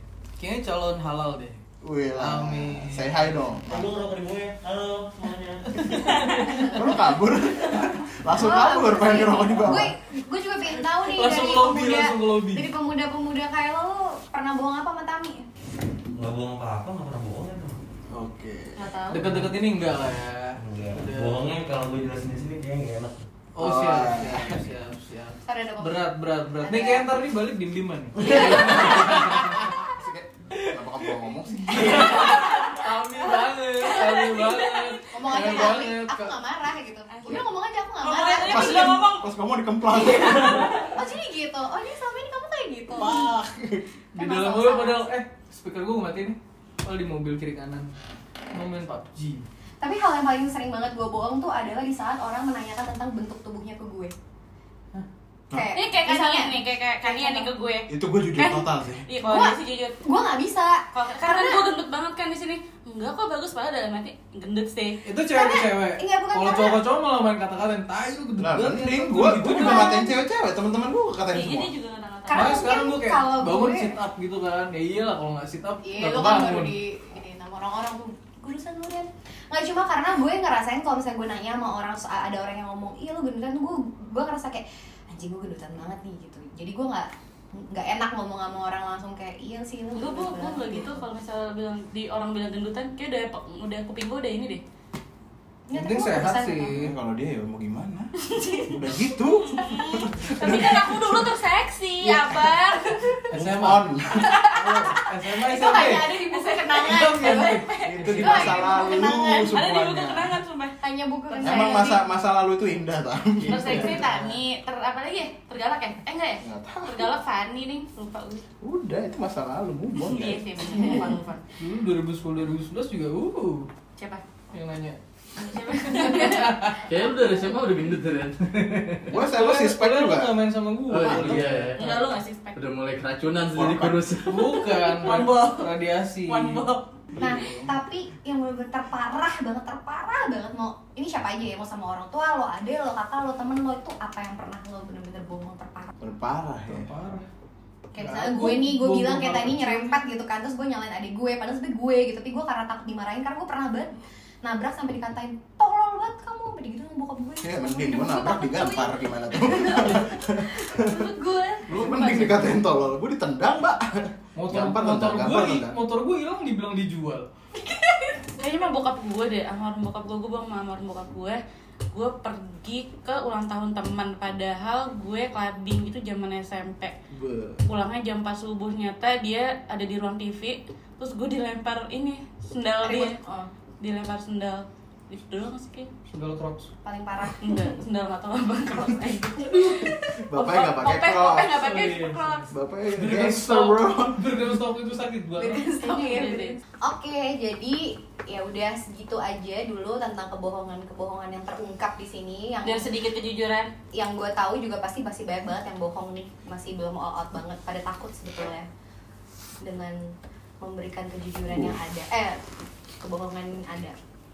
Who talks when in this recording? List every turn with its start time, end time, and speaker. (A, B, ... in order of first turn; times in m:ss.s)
0:00.4-0:01.6 A
0:01.8-0:03.9 B
0:02.2-0:03.2 A
0:03.6-0:06.2 C
0:05.8-0:06.8 A
0:05.8-0:09.9 B
0:06.5-0:06.8 D
0:08.4-0:15.5 D
0:11.0-0:12.7 A
0:16.1-0:17.8 C
0:18.1-0:18.9 B
0:18.8-0:19.2 D
0:19.1-0:21.5 A
0:19.3-0:19.5 C
0:20.6-0:23.2 C
0:23.5-0:29.7 A
0:23.6-0:24.5 B
0:25.4-0:26.1 D
0:26.6-0:27.1 D
0:28.2-0:32.3 B
0:28.2-0:29.2 D
0:30.6-0:31.1 A
0:31.6-0:36.4 A
0:32.3-0:32.6 E
0:33.8-0:35.0 E
0:35.1-0:39.0 D
0:37.1-0:39.3 E
0:38.4-0:40.9 B
0:39.9-0:40.9 E
0:40.4-0:43.3 D
0:42.9-0:43.9 B
0:44.1-0:47.9 A
0:44.1-0:45.1 D
0:48.5-0:49.4 A
0:49.8-0:54.1 D
0:55.5-0:57.5 D
0:55.7-1:00.0 E
0:57.9-0:59.0 B
0:59.2-1:01.7 D
1:00.9-1:05.0 E
1:05.0-1:10.0 A
1:05.3-1:06.8 D
1:08.4-1:11.7 B
1:09.5-1:10.1 D
1:11.3-1:12.8 E
1:12.3-1:14.0 D
1:12.3-1:16.7 A
1:15.8-1:31.0 D
1:29.9-1:34.6 E
1:35.7-1:36.8 D
1:35.7-1:36.9 A
1:36.7-1:41.2 B
1:38.2-1:38.9 E
1:39.5-1:43.2 E
1:42.0-1:43.2 D
1:43.3-1:45.0 B
1:43.3-1:46.1 A
1:44.2-1:47.6 D
1:44.2-1:44.8 E
1:45.5-1:50.7 E
1:46.8-1:48.6 A
1:47.8-1:50.4 B
1:48.2-1:49.6 D
1:50.8-1:52.0 D
1:51.3-1:51.9 E
1:51.4-1:54.1 B
1:53.4-1:58.4 E
1:53.6-1:54.4 A
1:56.4-1:57.1 B
1:58.6-2:01.1 B
2:00.0-2:01.4 E
2:01.6-2:03.7 A
2:04.0-2:04.2 E
2:04.5-2:06.9 A
2:05.4-2:06.6 E
2:06.7-2:09.1 F
2:09.0-2:11.8 A
2:09.1-2:10.4 B
2:10.9-2:14.7 F
2:11.7-2:12.6 E
2:13.5-2:14.0 B
2:14.2-2:16.6 A
2:14.8-2:15.7 E
2:16.3-2:16.9 E
2:17.2-2:17.7 A
2:17.2-2:25.9 D
2:26.0-2:26.9 B
2:26.7-2:27.2 A
2:27.9-2:41.9 D
2:28.0-2:30.0 A
2:37.4-2:41.0 B
2:41.7-2:45.7 B
2:41.7-2:42.5 E
2:41.8-2:42.1 A
2:44.4-2:47.2 A
2:47.6-2:48.2 D
2:48.4-2:51.4 E
2:51.9-2:56.9 E
2:57.1-2:57.6 B
2:57.6-3:03.2 E
3:02.8-3:03.5 D
3:03.8-3:05.9 E
3:06.1-3:06.7 A
3:06.8-3:07.6 D
3:07.4-3:12.5 E
3:09.5-3:11.6 B
3:11.5-3:15.6 A
3:12.5-3:14.6 B
3:15.4-3:22.9 D
3:15.7-3:16.6 E
3:22.6-3:23.7 E
3:23.9-3:28.7 D
3:29.6-3:32.4 D
3:33.0-3:34.0 D